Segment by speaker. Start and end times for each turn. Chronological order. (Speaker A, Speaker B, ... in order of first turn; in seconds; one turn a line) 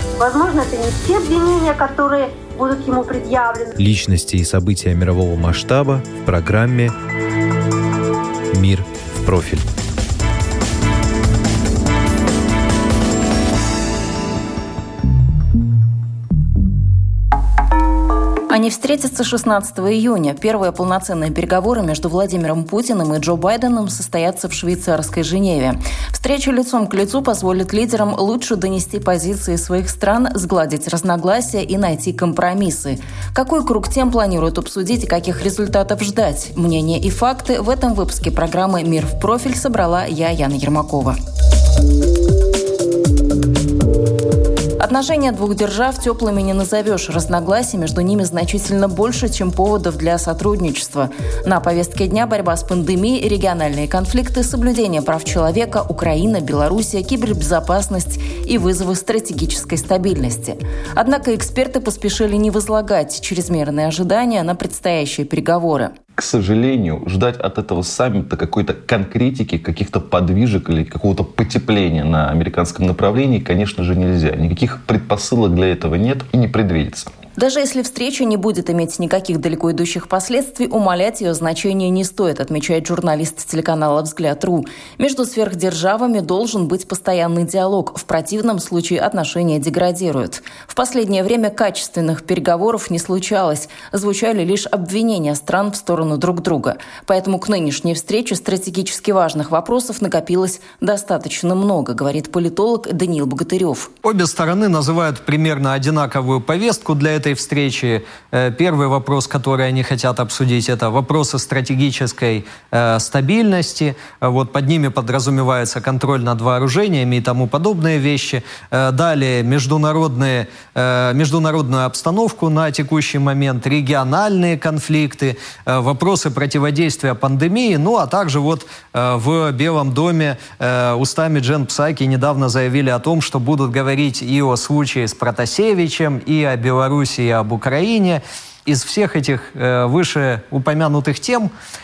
Speaker A: 0.2-2.1
Speaker A: 2.7-3.5
Speaker B: 3.8-6.9
Speaker B: 8.5-9.6
Speaker C: 18.5-41.1
Speaker C: 44.8-65.9
Speaker D: 66.2-77.1
Speaker C: 77.4-103.9
Speaker E: 104.0-141.5